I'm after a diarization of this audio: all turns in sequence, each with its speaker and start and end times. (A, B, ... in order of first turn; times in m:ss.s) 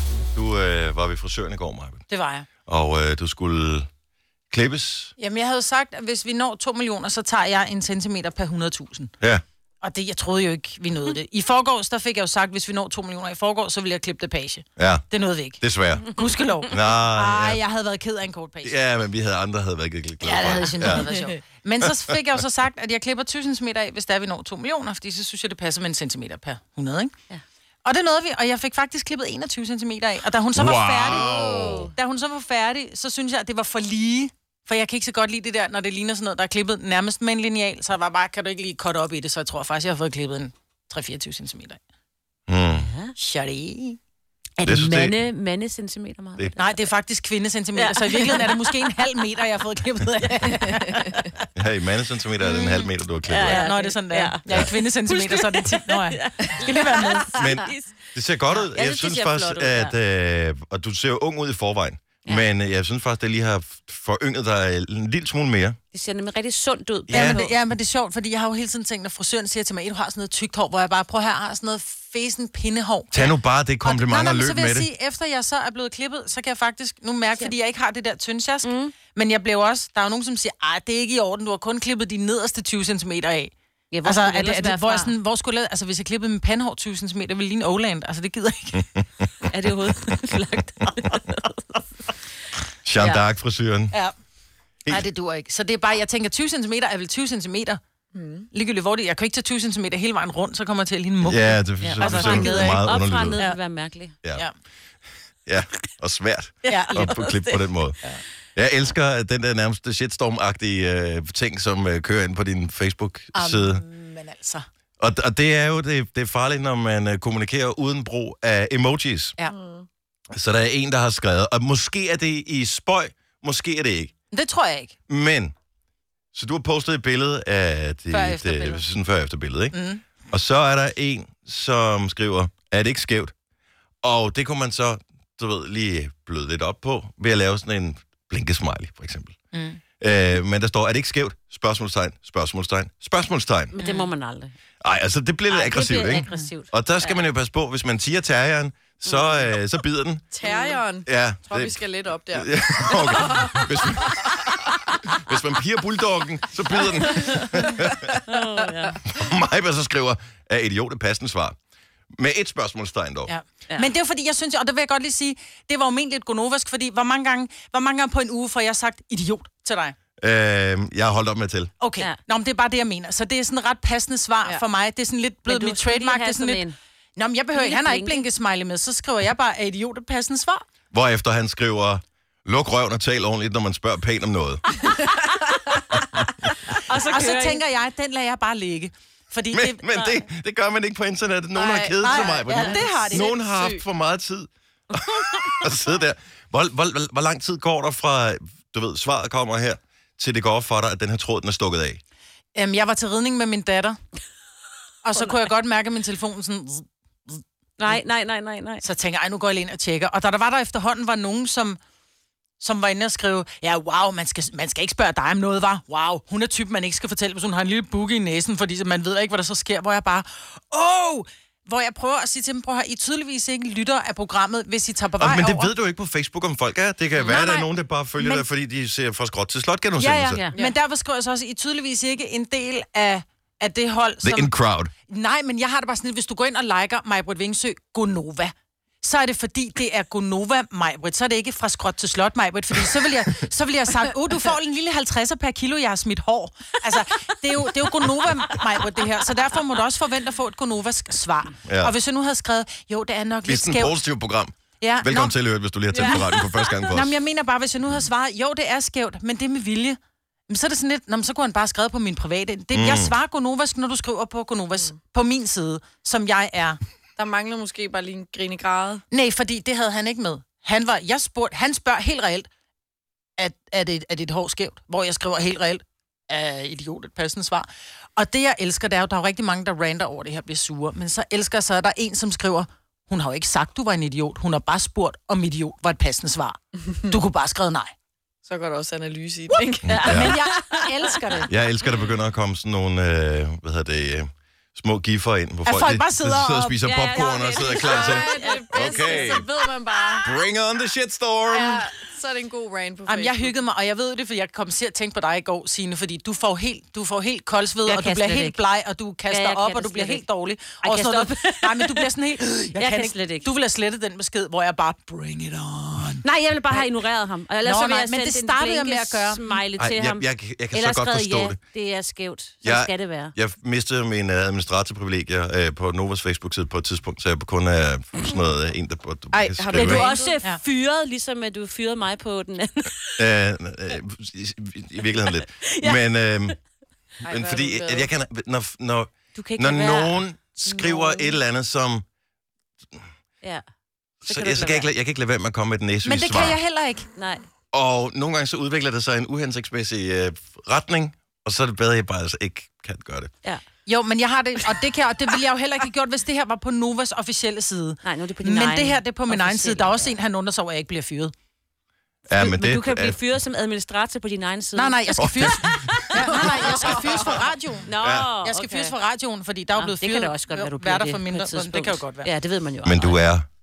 0:00.3-0:02.0 A
0:02.1-0:02.5 B
0:02.6-0:03.9 A
0:04.5-0:05.1 A
0:05.2-0:09.1 B
0:09.8-0:18.7 B
0:14.8-0:15.1 A
0:15.6-0:17.6 A
0:18.6-0:21.1 A
0:20.2-0:27.1 B
0:27.8-0:41.8 B
0:30.5-0:31.9 A
0:31.1-0:31.8 C
0:31.4-0:31.9 D
0:42.5-0:42.9 A
0:42.7-0:43.1 D
0:43.2-0:44.0 B
0:44.6-0:46.8 D
0:44.6-0:45.2 A
0:46.6-0:51.3 B
0:47.7-0:48.8 D
0:51.6-0:53.7 A
0:52.5-0:52.8 B
0:53.3-0:57.9 D
0:53.3-0:57.4 B
0:57.3-1:05.8 A
0:58.5-0:59.9 D
1:05.9-1:07.6 D
1:07.1-1:07.4 A
1:07.1-1:23.5 B
1:13.1-1:14.9 A
1:18.6-1:18.9 D
1:23.9-1:25.1 D
1:24.0-1:28.9 B
1:29.4-1:31.8 D
1:32.8-1:33.9 A
1:33.0-1:33.2 D
1:34.9-1:37.8 B
1:38.1-1:38.5 C
1:38.5-1:43.6 B
1:41.2-1:43.4 A
1:41.8-1:44.2 D
1:45.4-1:48.0 A
1:46.6-1:47.7 D
1:46.6-1:47.1 B
1:48.6-1:53.8 A
1:53.3-1:54.6 B
1:55.0-1:59.4 A
1:59.5-1:59.8 C
2:00.3-2:04.1 A
2:04.3-2:04.9 B
2:05.1-2:05.5 A
2:06.3-2:13.3 A
2:08.1-2:08.8 B
2:09.7-2:10.0 B
2:14.0-2:19.3 A
2:19.5-2:19.8 B
2:20.0-2:23.7 A
2:23.7-2:24.5 D
2:23.8-2:24.1 B
2:24.8-2:30.2 A
2:25.5-2:27.2 D
2:26.1-2:26.5 B
2:29.0-2:29.5 D
2:30.3-2:34.4 C
2:31.0-2:31.8 A
2:32.3-2:38.2 A
2:37.2-2:37.6 D
2:38.2-2:39.0 D
2:39.0-2:41.6 A
2:42.2-2:43.3 A
2:43.3-2:49.9 B
2:50.2-2:51.7 A
2:51.8-2:56.6 B
2:55.4-2:56.8 D
2:57.2-3:00.6 B
2:57.5-2:58.3 D
3:00.9-3:04.6 A
3:06.7-3:07.6 D
3:06.9-3:09.9 B
3:09.5-3:22.0 A
3:11.5-3:13.8 C
3:12.0-3:13.3 B
3:22.5-3:24.0 B
3:25.0-3:28.0 B
3:27.8-3:28.8 D
3:28.8-3:31.8 B
3:32.6-3:45.7 B
3:45.2-3:50.4 A
3:47.1-3:47.4 D
3:47.2-3:47.7 B
3:48.2-3:48.4 B
3:50.0-3:54.5 B
3:50.4-3:50.7 D
3:54.2-3:54.9 A
3:55.1-4:14.0 B
4:11.6-4:11.9 A
4:13.4-4:17.2 A
4:14.8-4:15.3 B
4:16.0-4:16.2 C
4:16.0-4:16.2 B
4:16.1-4:16.8 D
4:16.9-4:20.0 B
4:20.5-4:26.8 B
4:22.7-4:23.1 A
4:27.2-4:29.0 C
4:29.1-4:32.5 B
4:33.4-4:47.9 B
4:48.4-4:51.1 C
4:49.5-4:51.5 B
4:49.8-4:50.4 A
4:49.8-4:50.4 D
4:51.5-4:59.5 A
4:55.6-4:56.8 B
4:56.8-4:59.4 D
4:57.1-5:00.3 C
5:00.2-5:01.9 A
5:01.5-5:03.6 C
5:03.0-5:16.9 B
5:07.8-5:08.6 D
5:09.3-5:10.3 D
5:10.8-5:12.1 D
5:12.7-5:13.5 D
5:16.2-5:23.4 D
5:17.6-5:19.6 B
5:19.8-5:21.6 A
5:22.6-5:30.1 A
5:29.3-5:30.4 C
5:29.7-5:33.3 D
5:33.2-5:36.6 A
5:35.6-5:36.0 D
5:37.2-5:38.1 C
5:37.2-5:42.0 A
5:39.3-5:41.4 D
5:44.2-5:44.9 D
5:44.2-5:46.6 A
5:46.0-5:47.1 B
5:47.2-5:47.4 D
5:47.7-5:53.3 A
5:53.8-6:01.3 B
5:58.0-6:00.1 D
6:02.3-6:03.2 A
6:02.3-6:09.0 D
6:04.7-6:07.9 B
6:05.2-6:07.4 A
6:08.0-6:08.3 A
6:08.4-6:12.3 B
6:09.7-6:13.2 D
6:12.8-6:13.4 A